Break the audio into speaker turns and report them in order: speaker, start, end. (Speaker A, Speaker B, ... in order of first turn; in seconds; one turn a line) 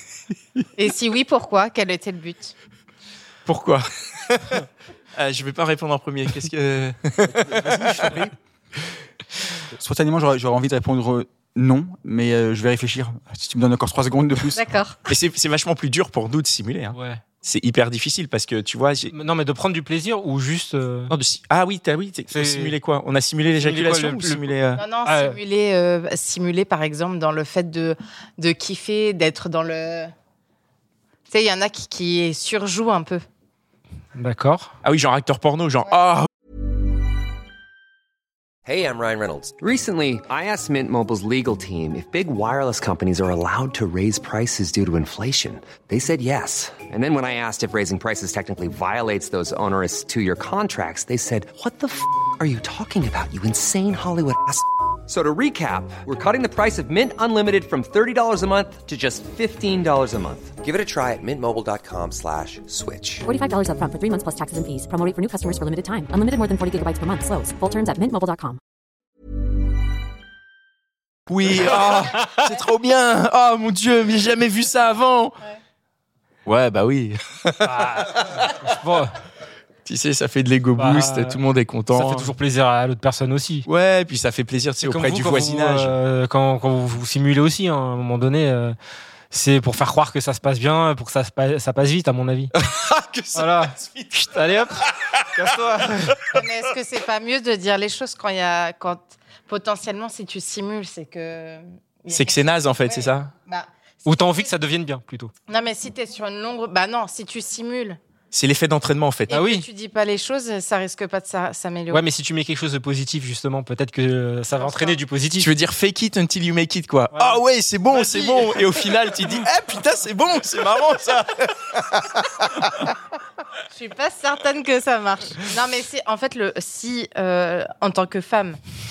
Speaker A: 0.8-2.5
Speaker B: 3.5-4.6
Speaker B: 5.2-8.2
Speaker C: 7.2-8.3
Speaker C: 9.7-14.6
Speaker A: 14.5-15.1
Speaker B: 15.1-19.1
Speaker D: 16.9-17.2
Speaker D: 19.1-21.1
Speaker B: 21.1-24.8
Speaker D: 22.3-22.8
Speaker D: 23.6-24.5
Speaker A: 24.8-30.1
Speaker D: 25.0-25.4
Speaker A: 31.3-33.2
Speaker D: 34.1-34.7
Speaker B: 34.8-36.3
Speaker E: 38.6-63.3
Speaker F: 63.2-68.6
Speaker B: 71.3-75.4
Speaker B: 76.5-78.7
Speaker D: 77.6-79.1
Speaker B: 79.8-82.3
Speaker D: 80.8-81.4
Speaker D: 81.9-83.7
Speaker B: 83.7-85.9
Speaker D: 84.8-88.8
Speaker D: 89.3-92.5
Speaker B: 92.6-94.2
Speaker D: 93.3-94.8
Speaker B: 94.9-95.3
Speaker D: 95.3-96.4
Speaker A: 96.3-104.5
Speaker B: 102.1-103.3
Speaker D: 104.0-105.3
Speaker A: 105.5-108.0
Speaker B: 108.3-109.4
Speaker A: 109.3-112.0
Speaker D: 109.3-109.7
Speaker D: 111.9-115.5
Speaker A: 114.6-115.0
Speaker B: 115.4-122.9
Speaker D: 117.1-117.4
Speaker D: 117.9-118.6
Speaker A: 123.7-128.6